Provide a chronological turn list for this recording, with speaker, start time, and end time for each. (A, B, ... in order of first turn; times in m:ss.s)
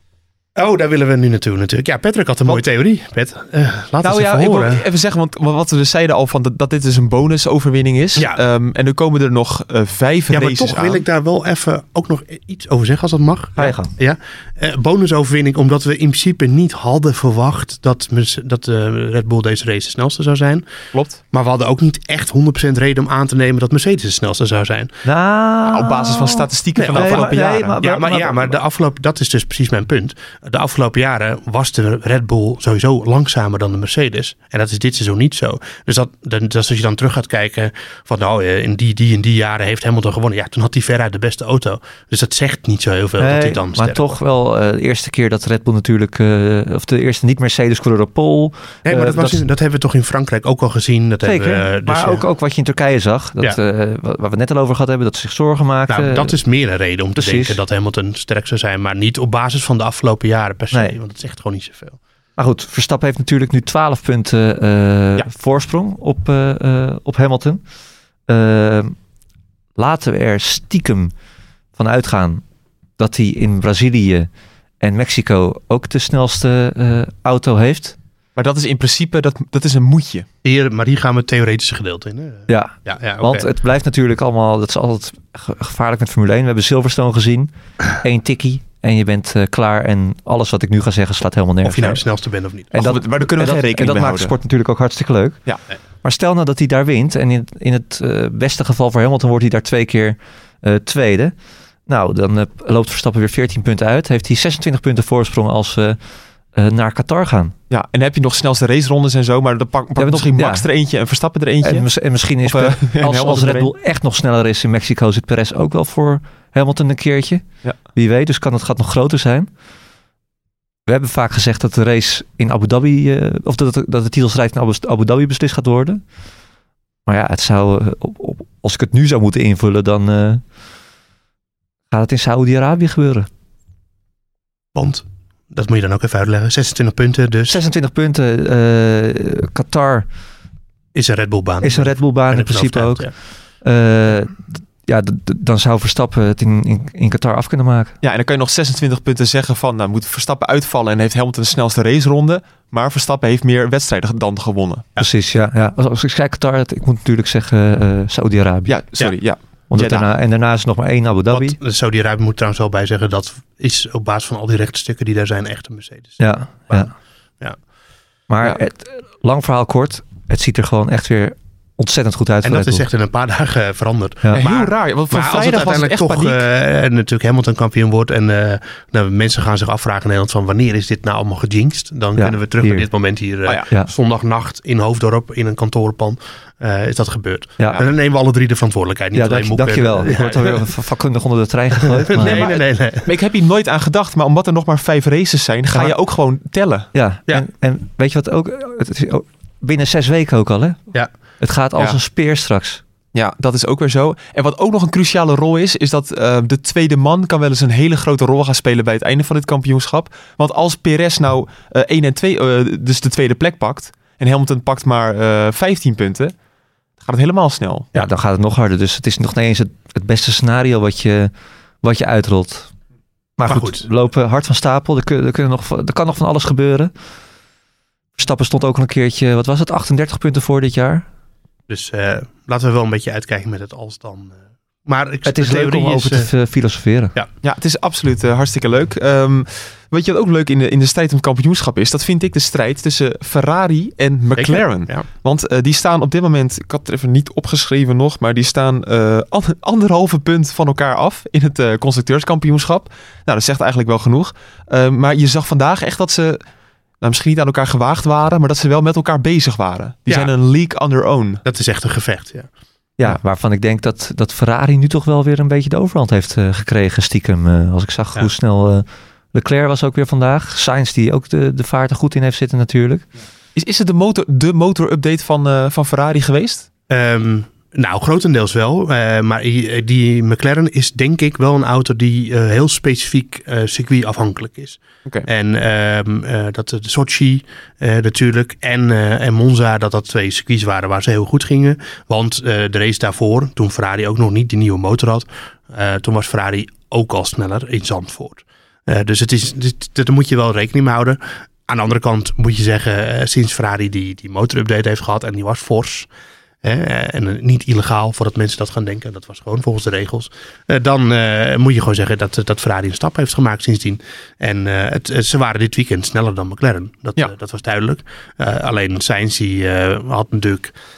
0:00.6-0:04.8 A
0:04.0-0:11.0 B
0:10.3-0:20.7 A
0:13.6-0:13.9 C
0:20.9-0:21.2 B
0:21.3-0:24.9 A
0:25.0-0:28.6 C
0:25.7-0:27.8 B
0:26.8-0:44.1 A
0:43.2-0:49.4 C
0:48.8-0:52.2 A
0:51.2-0:56.4 C
0:55.9-1:02.0 A
0:57.2-0:57.6 C
1:02.4-1:07.6 C
1:08.3-1:09.0 C
1:09.8-1:11.1 C
1:11.8-1:12.4 C
1:13.0-1:14.3 C
1:14.8-1:18.0 C
1:18.4-1:20.3 B
1:20.4-1:23.5 A
1:22.5-1:32.0 C
1:31.6-1:32.7 A
1:32.7-1:34.4 B
1:32.7-1:41.4 C
1:41.9-1:46.0 C
1:46.5-1:47.5 C
1:47.7-1:51.9 B
1:50.0-1:50.7 C
1:51.6-1:59.5 C
1:52.4-1:53.7 B
2:00.9-2:06.0 C
2:07.1-2:10.4 C
2:11.9-2:13.3 C
2:14.8-2:17.6 A
2:17.5-2:20.1 C
2:20.9-2:23.1 A
2:21.6-2:27.9 C
2:28.0-2:34.8 B
2:35.0-2:38.8 C
2:38.7-2:40.1 B
2:39.7-2:41.6 C
2:41.3-2:47.6 A
2:46.2-2:46.9 C
2:48.3-2:52.8 C
2:52.4-3:10.7 A
2:54.4-2:56.4 B
3:02.2-3:02.9 C
3:09.1-3:12.5 C
3:12.0-3:13.1 A
3:12.2-3:16.9 B
3:16.9-3:20.8 C
3:21.4-3:22.8 C
3:23.1-3:36.3 B
3:37.0-3:37.9 B
3:38.0-3:42.7 C
3:43.4-3:43.9 A
3:43.4-3:46.9 C
3:48.2-3:51.1 C
3:51.7-3:56.3 A
3:55.3-3:57.1 C
3:57.4-4:16.4 B
4:04.4-4:05.1 A
4:17.0-4:21.4 B
4:20.1-4:20.3 A
4:21.4-4:22.5 A
4:23.0-4:33.1 C
4:33.6-4:36.7 B
4:36.9-5:06.1 A
5:06.6-5:20.8 A